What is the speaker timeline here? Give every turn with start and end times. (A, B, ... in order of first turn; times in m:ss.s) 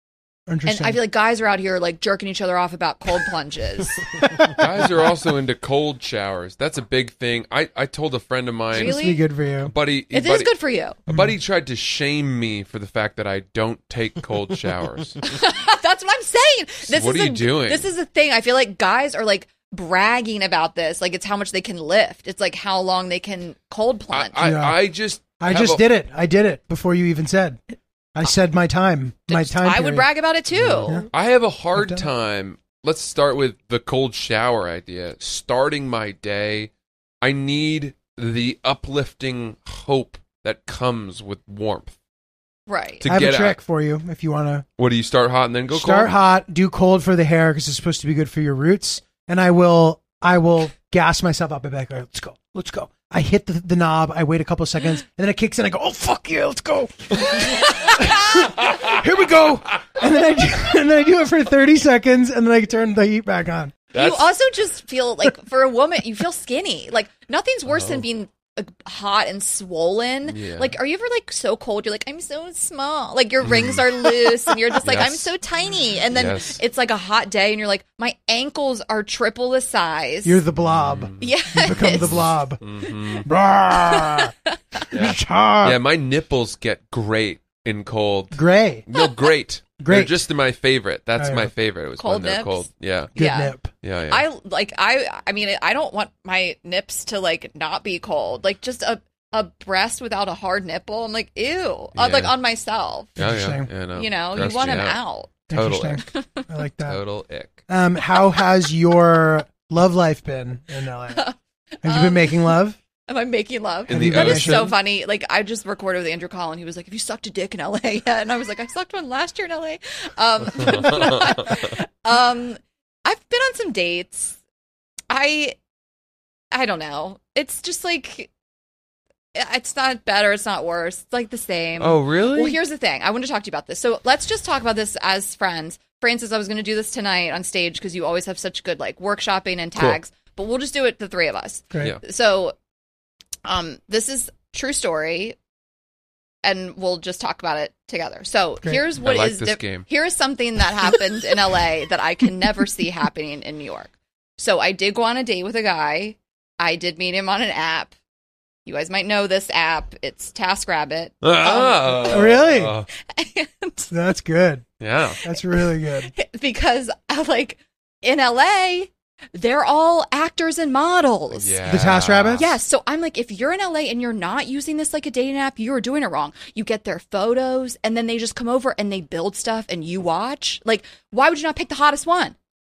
0:00.5-0:01.0 A
0:00.7-0:04.3 B
0:04.3-0:04.6 A
0:04.5-0:09.0 C
0:08.7-0:09.2 B
0:08.8-0:09.7 A
0:09.6-0:10.5 C
0:10.1-0:11.0 B
0:11.1-0:15.2 C
0:15.2-0:24.5 B
0:16.9-0:17.9 C
0:24.1-0:25.8 C
0:24.4-0:24.8 A
0:25.4-0:27.6 A
0:28.2-0:30.1 A
0:29.3-0:31.0 B
0:30.6-0:36.7 C
0:31.8-0:32.1 A
0:37.2-0:42.0 C
0:42.7-0:43.0 B
0:43.0-0:43.6 C
0:43.0-0:44.6 A
0:44.8-0:46.1 C
0:45.7-1:03.7 A
0:57.4-0:58.5 B
0:58.5-0:59.0 C
1:03.9-1:04.3 C
1:04.0-1:20.4 B
1:07.7-1:08.0 C
1:10.3-1:10.8 C
1:13.4-1:13.9 C
1:14.8-1:15.3 C
1:16.1-1:16.6 C
1:20.2-1:22.6 A
1:20.6-1:21.8 C
1:21.2-1:22.3 B
1:22.6-1:23.3 C
1:23.2-1:24.3 A
1:23.7-1:24.8 B
1:24.9-1:33.1 C
1:24.9-1:25.8 A
1:28.3-1:28.8 A
1:29.8-1:30.1 A
1:31.2-1:31.5 A
1:32.0-1:33.5 B
1:33.2-1:33.7 A
1:33.8-1:34.2 C
1:34.1-1:43.2 B
1:42.0-1:42.3 C
1:43.2-1:45.0 C
1:43.2-1:43.7 A
1:43.9-1:45.3 B
1:45.5-1:47.0 A
1:45.5-1:46.1 C
1:46.1-1:46.5 B
1:46.8-1:47.6 C
1:47.7-1:51.2 A
1:51.1-1:52.6 B
1:51.8-1:52.8 A
1:53.1-2:04.4 B
1:53.9-1:54.7 C
1:53.9-1:54.8 A
2:00.6-2:01.6 C
2:05.1-2:05.6 B
2:06.5-2:08.3 B
2:09.4-2:22.6 B
2:11.8-2:12.6 C
2:23.4-2:25.4 B
2:26.4-2:37.9 B
2:29.0-2:29.9 C
2:38.7-2:42.4 B
2:41.2-2:42.9 C
2:42.1-2:42.8 A
2:43.0-2:43.9 B
2:43.9-2:44.6 A
2:44.8-2:45.2 C
2:45.2-2:46.1 A
2:46.0-3:02.4 B
2:51.4-2:52.5 C
2:51.7-2:52.5 A